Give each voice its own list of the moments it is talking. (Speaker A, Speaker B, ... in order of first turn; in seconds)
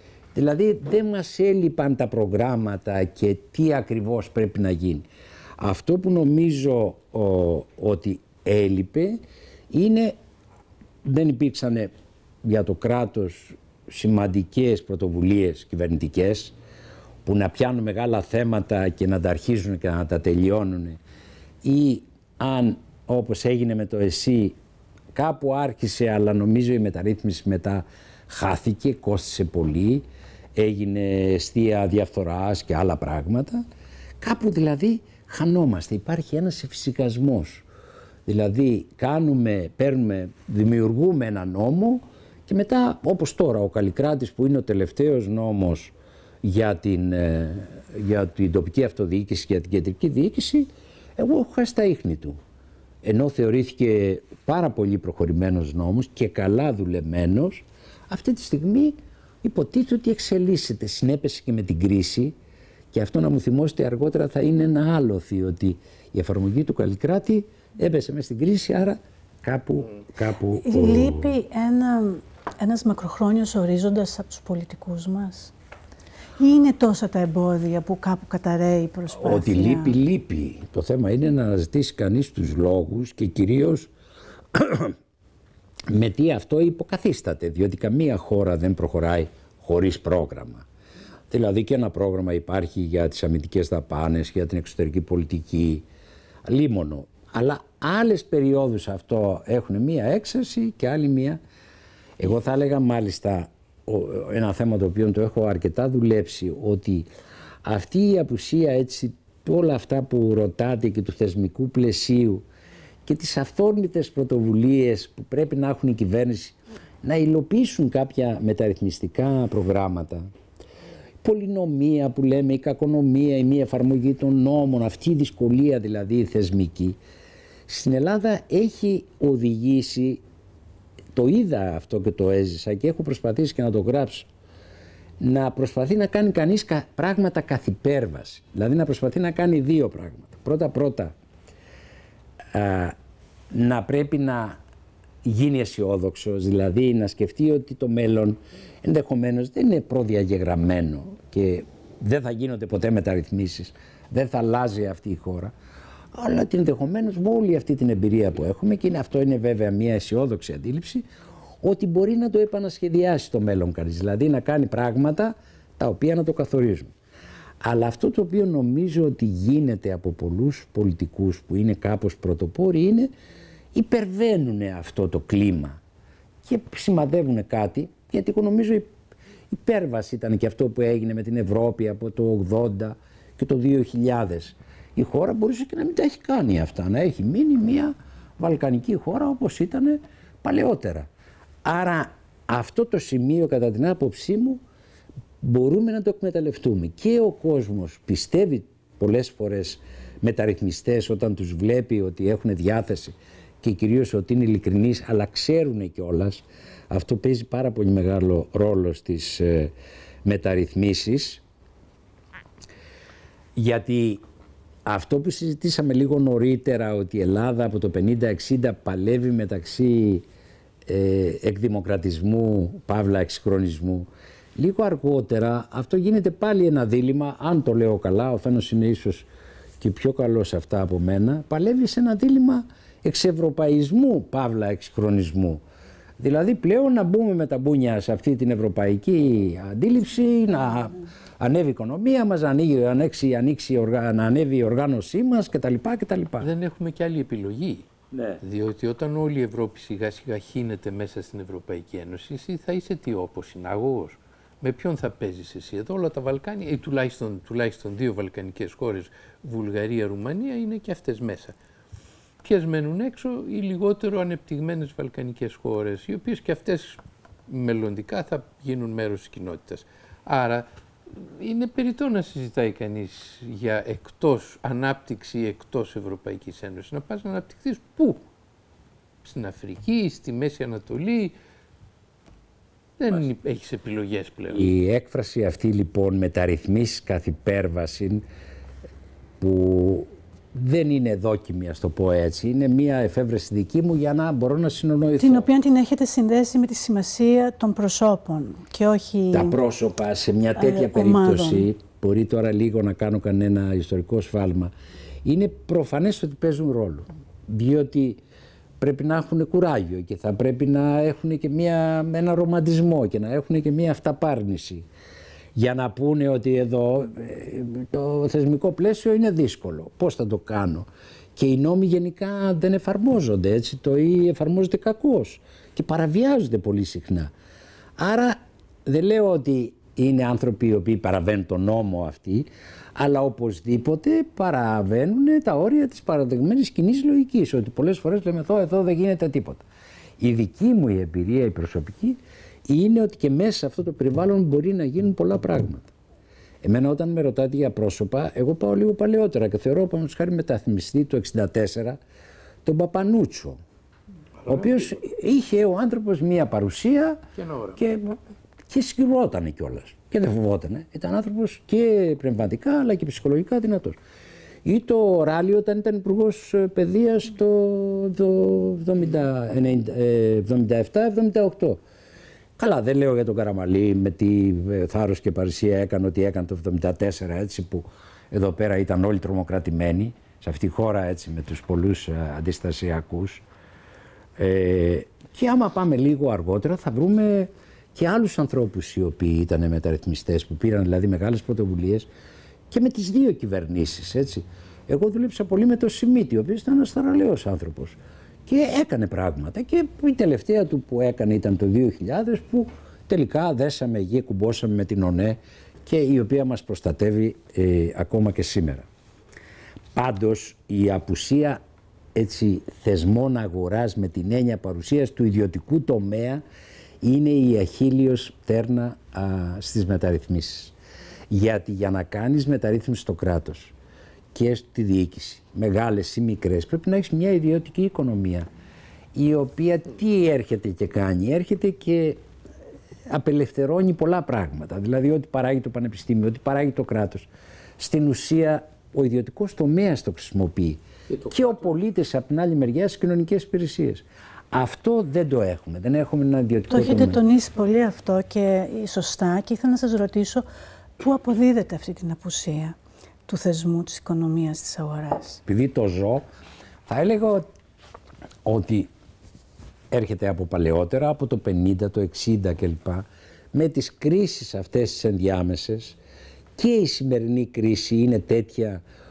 Speaker A: 0.3-5.1, 5.6-9.2, 9.7-10.2, 11.0-11.9, 12.4-16.5, 17.2-21.0, 21.6-24.6, 25.1-33.6, 34.2-37.6, 38.2-52.4, 53.0-62.3, 62.9-71.3, 79.2-83.9, 84.5-85.0, 85.9-90.7, 91.3-95.8, 96.5-101.4, 102.2-107.1, 107.6-112.4, 113.0-120.2, 121.2-127.0, 127.7-130.2, 131.1-134.3, 135.2-141.1, 142.5-142.9, 143.5-144.6, 145.2-155.5, 156.1-161.0, 161.6-166.9, 167.6-173.1, 173.7-175.8, 176.4-178.9, 179.5-191.1, 191.6-194.6, 195.4-209.7, 210.2-211.4, 213.6-214.2, 214.8-220.2, 220.8-229.3, 229.8-235.6, 236.2-246.5, 248.1-248.4, 284.5-288.2, 289.4-295.5, 299.3-304.7, 305.2-308.2, 308.8-314.9, 315.5-327.3, 328.0-339.6, 340.2-345.9, 346.6-352.0, 352.6-353.6, 354.4-357.2, 357.8-358.2, 358.7-364.0, 364.6-371.8, 372.6-383.4, 384.4-392.1, 392.7-408.9, 409.9-411.6, 412.1-416.4, 417.0-420.7, 421.3-423.7, 424.3-428.5, 429.1-432.2, 433.1-437.3, 437.8-447.2, 455.4-456.2, 456.9-457.5, 458.4-458.9, 459.9-466.0, 466.6-468.8
Speaker B: 70.6-75.5, 76.4-80.0, 295.2-299.6, 300.6-301.7, 446.7-450.4, 451.0-455.4
Speaker C: 246.4-247.9, 248.4-261.5, 262.4-278.2, 279.2-281.3, 283.0-284.7, 354.4-354.8, 357.4-357.8, 441.1-441.6